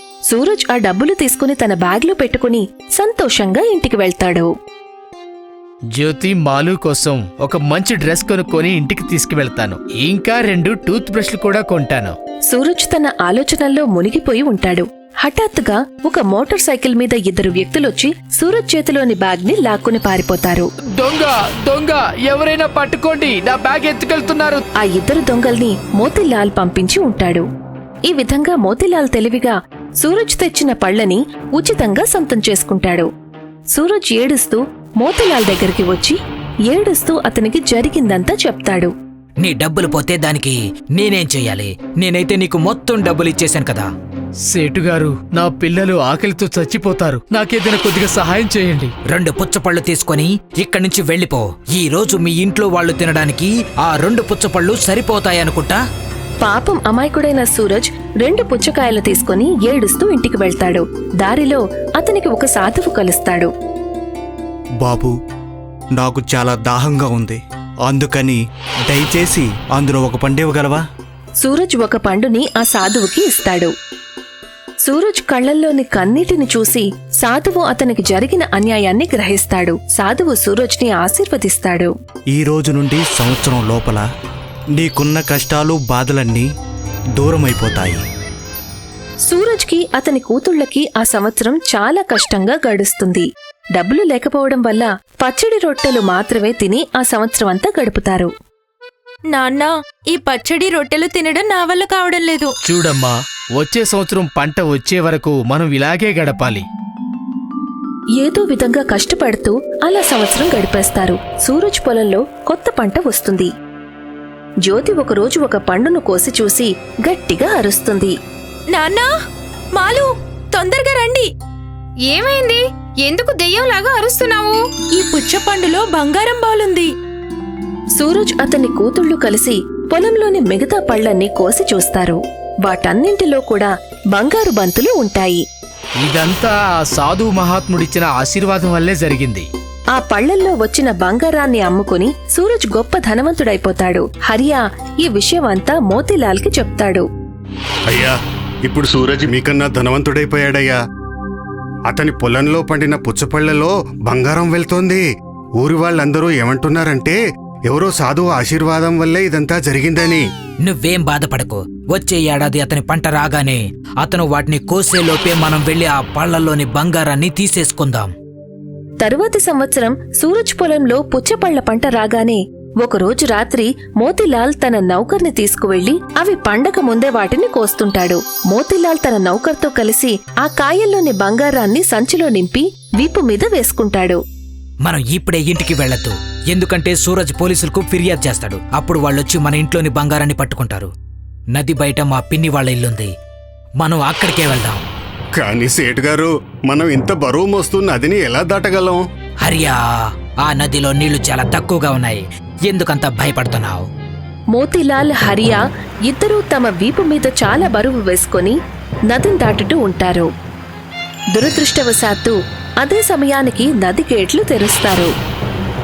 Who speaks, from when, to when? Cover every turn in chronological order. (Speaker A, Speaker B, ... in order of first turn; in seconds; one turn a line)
Speaker A: 0.3-4.5
Speaker B: 5.9-12.1
Speaker A: 12.5-20.7
Speaker B: 20.9-24.6
Speaker A: 24.8-27.4
Speaker A: 28.1-33.1
Speaker A: 33.7-36.2
Speaker A: 36.7-38.9
Speaker C: 39.4-43.9
Speaker B: 44.5-48.9
Speaker C: 49.1-55.8
Speaker A: 56.4-63.5
Speaker D: 64.8-65.1
Speaker D: 66.0-70.8
Speaker A: 71.4-73.7
Speaker A: 74.8-81.9
Speaker D: 82.3-84.0
Speaker D: 84.8-86.5
Speaker D: 87.2-88.0
Speaker A: 89.3-98.3
Speaker E: 99.3-102.5
Speaker B: 102.6-106.7
Speaker A: 108.2-113.5
Speaker A: 114.7-118.1
Speaker E: 118.7-119.1
Speaker E: 119.7-121.2
Speaker E: 122.1-126.9
Speaker A: 128.0-135.4
Speaker B: 136.0-139.5
Speaker A: 139.9-147.1
Speaker F: 147.9-150.8
Speaker F: 151.9-155.0
Speaker F: 155.6-160.2
Speaker C: 160.6-168.1
Speaker A: 169.0-184.2
Speaker C: 184.8-190.9
Speaker C: 191.5-193.1
Speaker C: 193.8-194.8
Speaker F: 195.3-199.0
Speaker C: 199.4-199.8
Speaker C: 200.4-203.9
Speaker A: 204.5-208.6
Speaker A: 209.1-210.3
Speaker A: 211.3-215.1